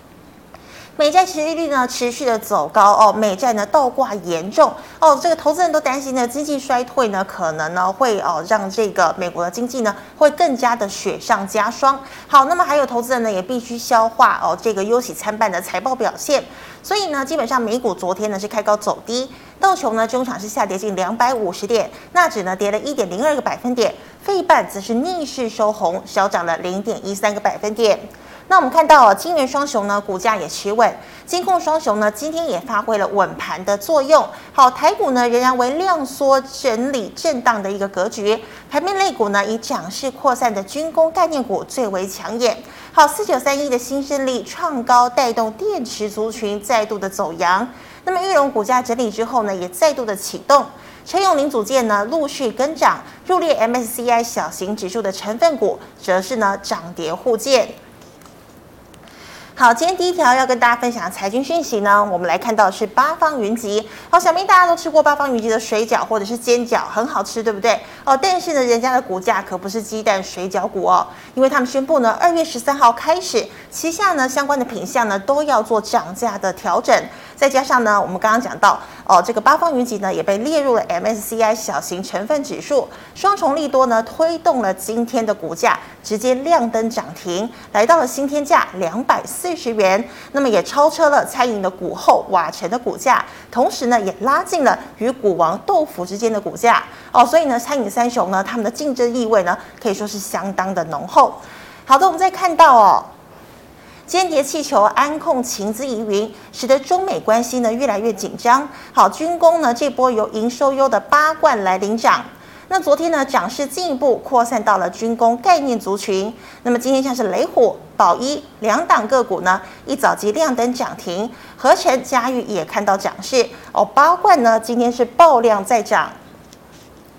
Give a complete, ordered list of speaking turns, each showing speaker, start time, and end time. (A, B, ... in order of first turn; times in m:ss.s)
0:01.0-0:57.7 A
0:59.6-1:43.1 A
1:44.1-2:06.2 A